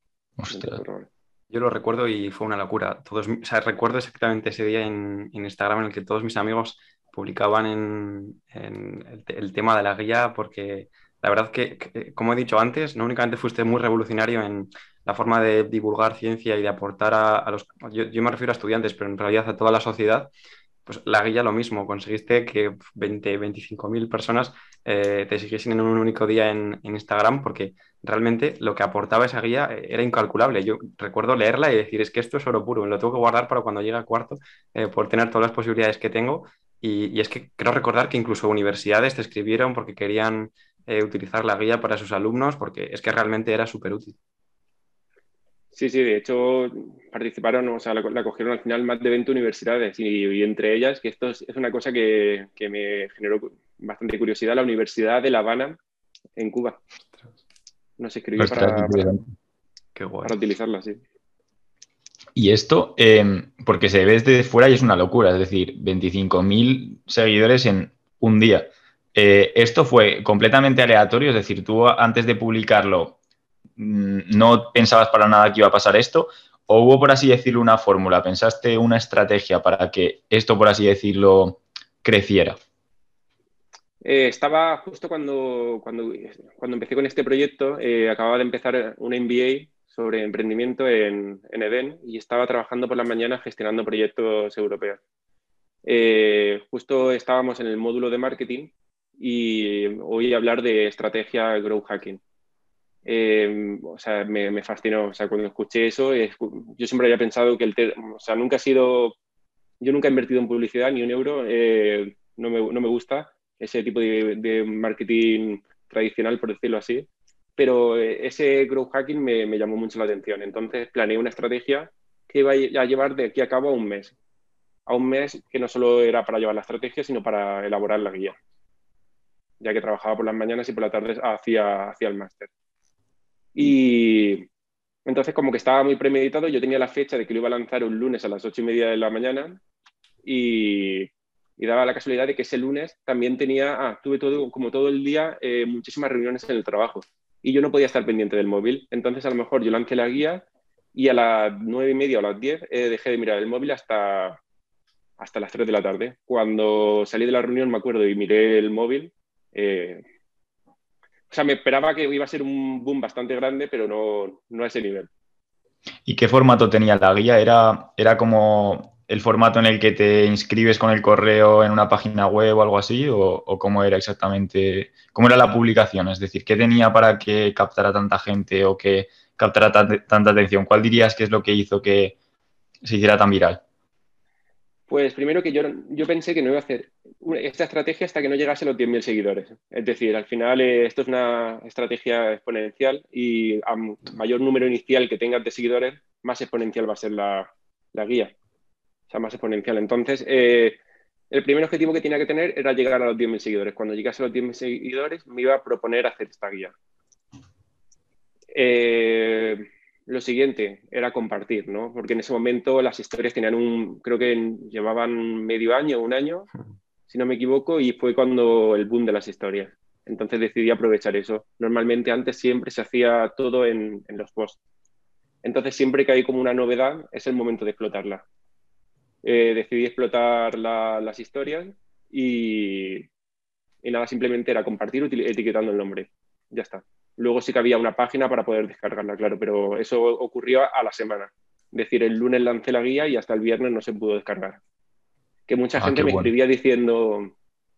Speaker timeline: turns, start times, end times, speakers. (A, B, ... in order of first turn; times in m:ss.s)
0:00.4-0:00.8 A
0:00.5-0:01.1 B
0:01.5-0:20.3 C
0:20.8-0:44.2 C
0:45.7-0:55.8 B
0:56.4-0:56.8 B
0:58.0-0:59.2 B
0:58.4-0:59.2 A
0:59.9-1:00.3 C
1:00.2-1:01.0 B
1:02.4-1:13.2 A
1:13.8-1:22.6 A
1:24.0-1:35.0 B
1:35.8-1:42.2 B
1:43.0-1:49.2 B
1:49.8-2:04.1 B
2:04.9-2:08.4 B
2:09.6-2:12.5 B
2:13.5-2:14.5 B
2:15.0-2:19.6 B
2:20.2-2:34.4 B
2:35.2-2:40.0 B
2:41.3-2:45.1 B
2:46.0-3:02.2 A
3:02.8-3:03.6 A
3:04.9-3:18.3 B
3:19.1-3:20.8 B
3:21.3-3:26.7 B
3:28.5-3:36.5 B
3:37.1-3:44.6 B
3:45.4-3:48.2 B
3:49.2-3:53.1 B
3:53.8-4:04.6 B
4:05.5-4:07.3 B
4:05.8-4:06.3 A